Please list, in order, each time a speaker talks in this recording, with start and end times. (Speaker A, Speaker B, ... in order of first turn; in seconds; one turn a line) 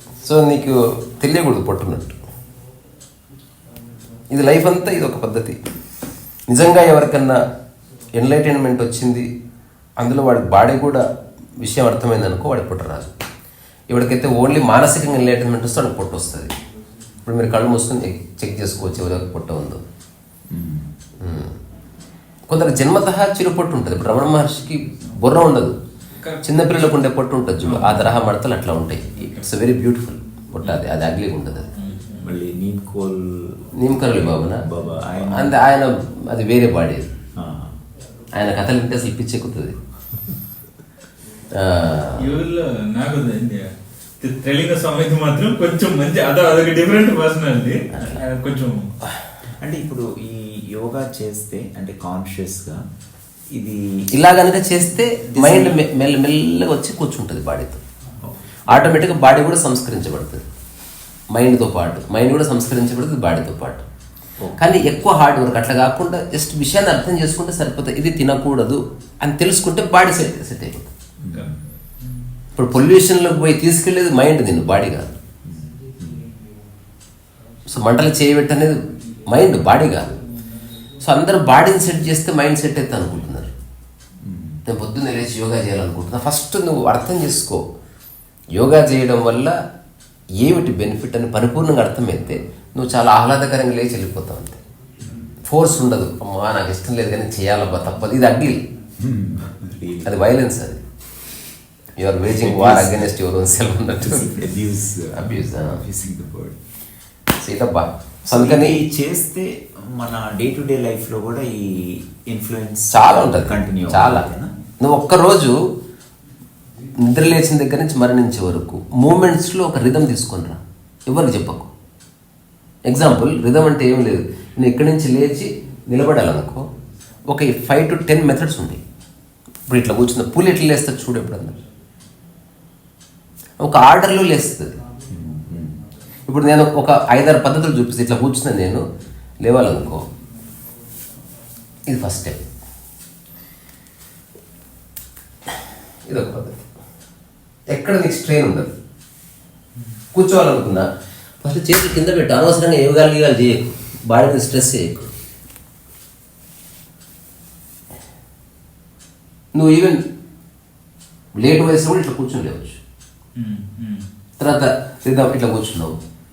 Speaker A: 0.2-2.2
Speaker A: 4.3-5.6
Speaker A: 6.5-7.4
Speaker A: 8.2-9.3
Speaker A: 10.0-13.1
Speaker A: 13.9-16.5
Speaker A: 17.2-19.8
Speaker B: 20.5-20.9
Speaker A: 21.2-21.6
Speaker A: 22.5-25.8
Speaker C: 26.2-26.8
Speaker A: 26.4-31.7
Speaker C: 27.6-28.2
Speaker C: 31.8-32.3
Speaker B: 32.2-33.7
Speaker A: 33.7-34.6
Speaker B: 34.5-35.6
Speaker A: 35.2-37.1
Speaker B: 37.4-37.8
Speaker A: 38.3-39.8
Speaker A: 41.5-42.3
Speaker C: 42.2-48.9
Speaker A: 47.9-48.2
Speaker B: 49.6-52.8
Speaker B: 53.5-54.1
Speaker A: 54.1-57.8
Speaker B: 55.4-55.8
Speaker B: 58.2-58.8
Speaker A: 58.7-60.4
Speaker A: 61.3-63.8
Speaker B: 64.4-64.7
Speaker A: 64.6-70.9
Speaker B: 71.2-71.6
Speaker C: 71.3-72.2
Speaker A: 72.5-75.2
Speaker B: 75.4-76.3
Speaker A: 77.7-80.2
Speaker A: 81.0-83.5
Speaker B: 84.2-84.6
Speaker A: 84.7-87.6
Speaker A: 88.5-89.6
Speaker A: 90.4-94.6
Speaker A: 95.4-98.7
Speaker B: 99.0-100.2
Speaker A: 100.0-100.8
Speaker A: 102.0-104.3
Speaker B: 102.3-103.2
Speaker B: 104.0-106.6
Speaker A: 105.1-105.8
Speaker A: 107.4-108.8
Speaker B: 108.2-114.5
Speaker A: 112.9-114.3
Speaker A: 114.8-115.6
Speaker A: 117.0-121.7
Speaker A: 122.9-126.7
Speaker A: 127.3-128.8
Speaker A: 129.7-131.6
Speaker A: 133.6-134.8
Speaker B: 135.1-135.9
Speaker A: 136.3-138.9
Speaker A: 139.4-140.1
Speaker A: 141.9-142.4
Speaker A: 146.1-146.6
Speaker A: 147.7-148.7
Speaker A: 150.1-150.9
Speaker A: 151.4-155.1
Speaker A: 159.5-160.0
Speaker A: 161.4-162.8
Speaker C: 163.4-164.1
Speaker A: 164.4-166.0